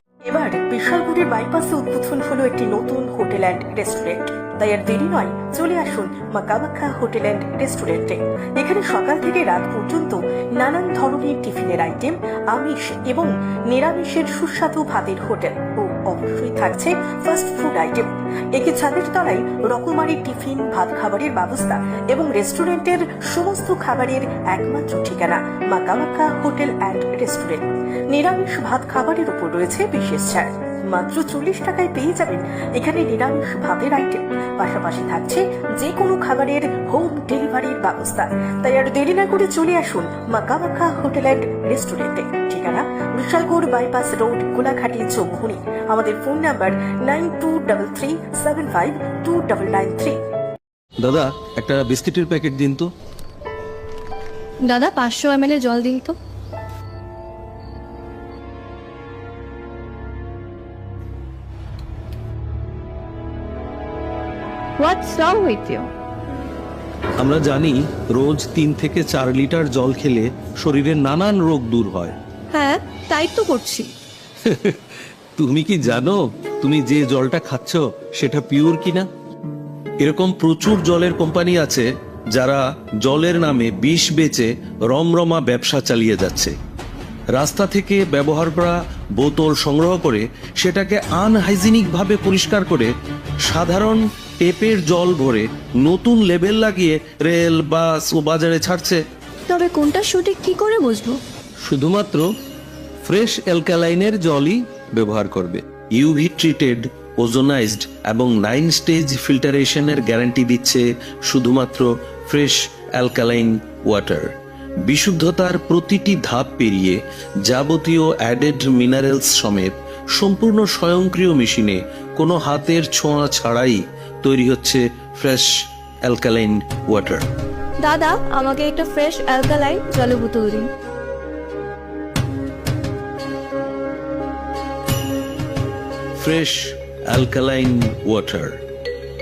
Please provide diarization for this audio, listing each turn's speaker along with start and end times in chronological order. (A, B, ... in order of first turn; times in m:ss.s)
0:00.2-0:50.2 A
0:51.0-0:52.9 B
0:54.7-0:56.2 C
1:04.8-1:05.9 C
1:07.2-1:12.2 B
1:12.5-1:13.9 C
1:15.4-1:19.1 B
1:20.0-1:26.5 B
1:27.4-1:32.9 B
1:33.5-1:39.0 B
1:39.5-1:41.2 C
1:41.6-1:42.3 B
1:43.0-1:54.3 B
1:54.9-2:05.5 B
2:06.1-2:07.3 B
2:07.8-2:10.7 C
2:16.2-2:18.6 B